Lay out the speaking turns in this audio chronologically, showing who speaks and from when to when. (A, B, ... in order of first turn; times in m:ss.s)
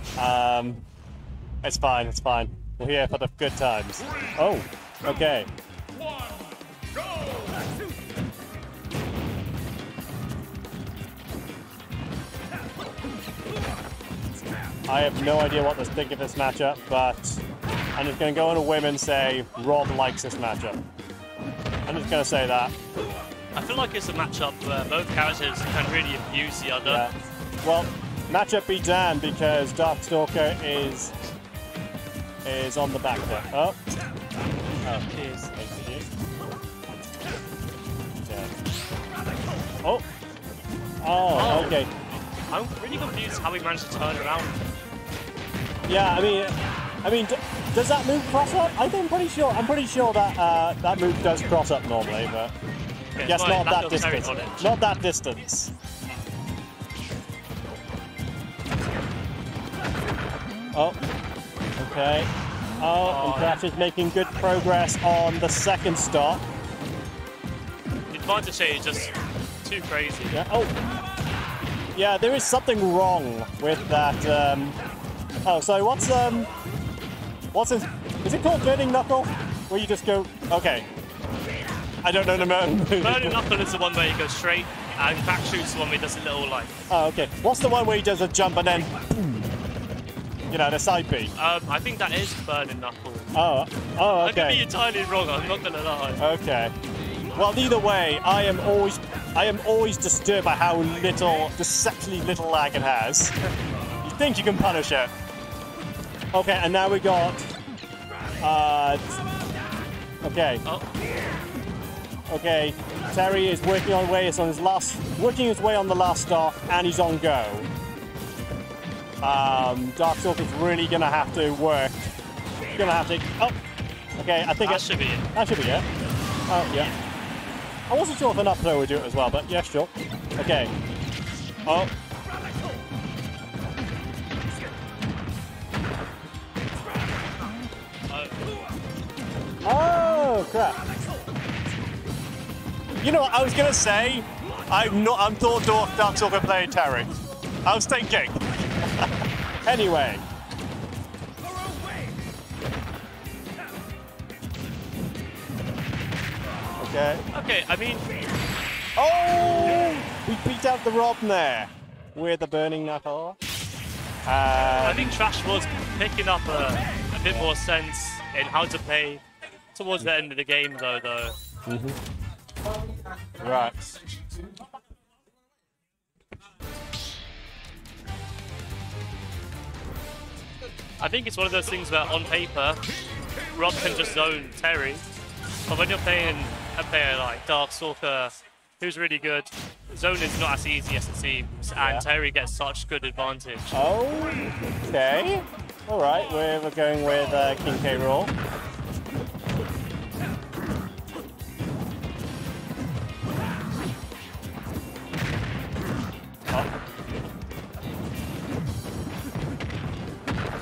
0:00.2-0:00.8 A
0:01.6-0:05.5 A
0:14.9-0:17.4 A
0:18.0-0:20.8 A
0:21.9-0:22.7 A
0:23.5-0:27.0 B
0:26.8-0:31.1 A
0:32.4-0:33.8 A
0:34.8-0:36.0 A
0:35.0-0:35.5 B
0:38.2-0:38.5 A
0:41.0-0:41.9 A
0:41.3-0:41.8 B
0:42.5-0:44.6 B
0:45.9-0:52.5 A
0:53.1-0:54.7 B
0:53.2-0:55.7 A
1:00.7-1:01.0 A
1:01.8-1:06.4 A
1:03.0-1:03.6 B
1:08.1-1:10.4 B
1:10.3-1:10.7 A
1:11.9-1:14.8 A
1:15.4-1:16.5 A
1:17.5-1:20.8 A
1:22.0-1:23.4 A
1:23.0-1:26.7 B
1:26.9-1:29.5 A
1:30.5-1:31.3 A
1:31.3-1:33.3 B
1:33.3-1:34.6 A
1:34.2-1:36.2 B
1:36.2-1:36.7 A
1:37.3-1:43.4 A
1:44.0-1:45.1 A
1:46.3-1:47.5 A
1:48.4-1:49.0 A
1:50.2-1:50.6 A
1:52.3-1:57.7 A
1:59.2-2:02.1 A
2:02.7-2:03.6 A
2:04.2-2:05.8 A
2:04.6-2:05.3 B
2:06.5-2:06.9 A
2:07.9-2:10.7 A
2:11.6-2:11.9 A
2:18.1-2:18.4 B
2:19.6-2:20.8 A
2:23.0-2:30.2 A
2:36.8-2:37.2 A
2:37.3-2:38.1 B
2:39.0-2:43.4 A
2:44.2-2:45.2 A
2:44.8-2:49.2 B
2:49.7-2:51.4 B
2:51.7-2:52.0 A
2:53.4-2:53.9 A
3:01.0-3:02.8 B
3:03.5-3:05.0 B
3:05.7-3:13.8 B
3:11.8-3:12.0 A
3:13.7-3:18.3 A